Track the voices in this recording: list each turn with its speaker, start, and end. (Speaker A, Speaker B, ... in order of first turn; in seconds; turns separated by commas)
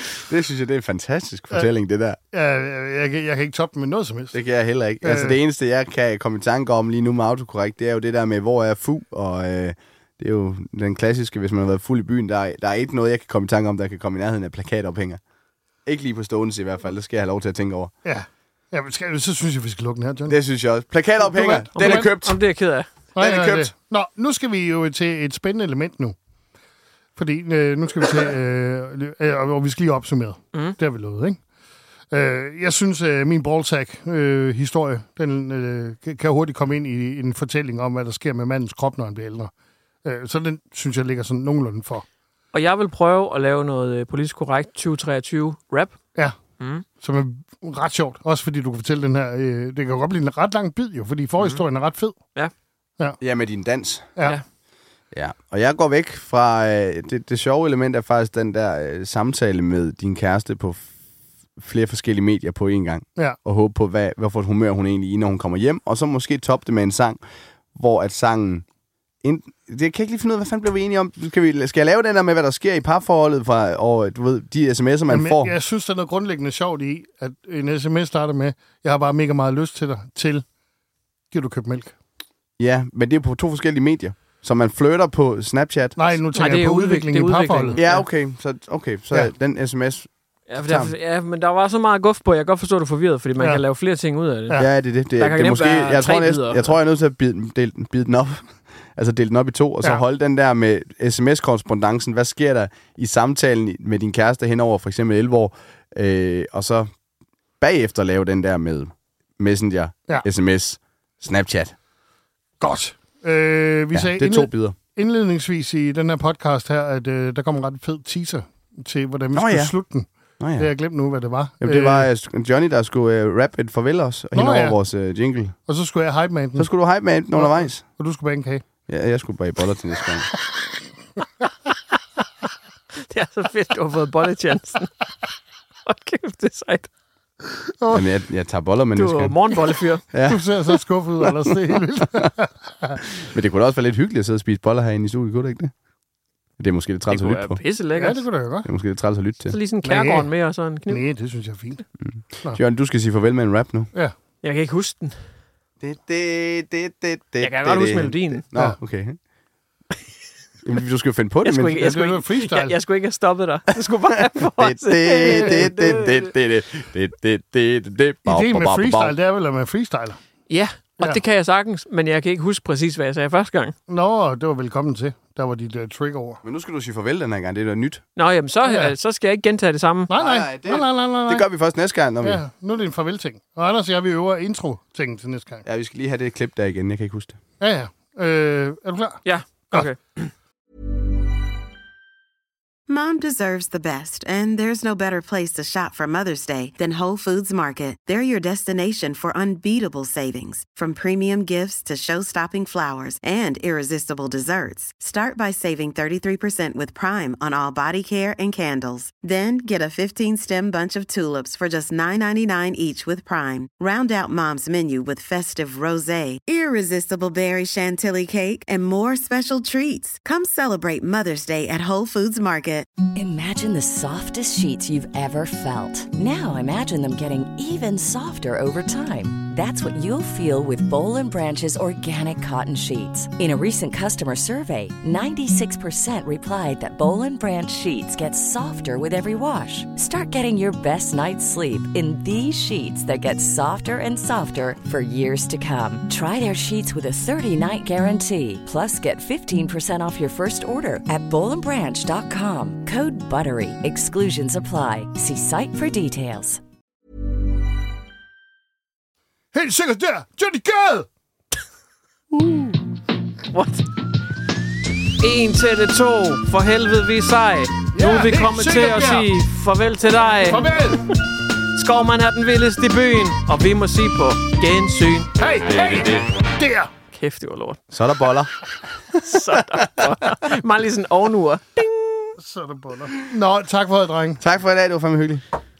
Speaker A: 0.2-2.2, Speaker B: 2.3-4.3, Speaker A: 4.3-15.2, Speaker B: 5.0-5.4, Speaker A: 15.9-17.9, Speaker B: 18.0-20.4, Speaker A: 20.3-22.4, Speaker B: 21.3-22.1, Speaker C: 21.8-22.9, Speaker B: 23.1-26.1, Speaker A: 23.2-23.7, Speaker B: 27.2-31.4, Speaker B: 32.1-39.5, Speaker B: 40.0-42.0, Speaker C: 42.5-46.0, Speaker B: 47.0-52.2, Speaker A: 53.2-54.1, Speaker A: 55.1-60.9, Speaker A: 61.6-67.2, Speaker A: 67.8-68.7, Speaker A: 69.2-75.5, Speaker B: 75.1-80.5, Speaker B: 81.3-81.9, Speaker A: 82.6-86.1, Speaker B: 86.0-87.8, Speaker C: 86.3-88.0, Speaker A: 87.8-90.1, Speaker C: 90.5-94.6, Speaker A: 90.6-90.9, Speaker A: 94.6-106.9, Speaker C: 95.2-96.8, Speaker A: 107.6-111.7, Speaker B: 112.6-122.1, Speaker A: 113.9-114.8, Speaker A: 119.3-119.7, Speaker A: 120.4-120.7, Speaker A: 121.6-125.6, Speaker B: 124.3-124.8, Speaker B: 125.7-126.7, Speaker A: 126.6-127.8, Speaker B: 127.3-128.6, Speaker A: 128.9-130.3, Speaker C: 133.1-134.9, Speaker C: 135.8-136.9, Speaker B: 137.5-138.1, Speaker A: 137.9-139.3, Speaker C: 139.0-140.0, Speaker A: 140.1-140.5, Speaker B: 140.3-143.0, Speaker A: 143.2-145.7, Speaker A: 146.6-147.6, Speaker C: 147.1-148.3, Speaker B: 148.0-148.7, Speaker A: 148.7-149.6, Speaker C: 149.5-151.0, Speaker B: 149.8-150.3, Speaker B: 150.9-151.8, Speaker A: 152.0-153.9, Speaker C: 154.4-155.2, Speaker A: 155.8-159.2, Speaker C: 157.4-158.4, Speaker A: 160.6-161.8, Speaker C: 161.4-166.3, Speaker B: 161.8-162.8, Speaker A: 164.4-169.1, Speaker B: 168.3-170.2, Speaker C: 170.5-173.8, Speaker B: 173.9-176.4, Speaker A: 176.4-178.0, Speaker C: 178.2-180.1, Speaker B: 178.7-178.9, Speaker B: 180.1-181.4, Speaker A: 180.2-182.4, Speaker B: 182.2-185.7, Speaker A: 185.7-187.4, Speaker B: 187.6-189.2, Speaker C: 189.2-190.3, Speaker D: 192.9-222.9, Speaker E: 223.2-256.6, Speaker B: 259.5-261.1, Speaker C: 262.4-262.7, Speaker C: 263.5-263.9, Speaker C: 265.2-270.7, Speaker B: 267.9-269.3, Speaker B: 270.5-271.0, Speaker C: 271.7-275.3, Speaker B: 275.4-276.9, Speaker C: 277.1-277.8, Speaker A: 277.9-278.5, Speaker A: 279.1-280.3, Speaker C: 279.2-282.3, Speaker B: 282.4-284.4, Speaker A: 284.4-285.4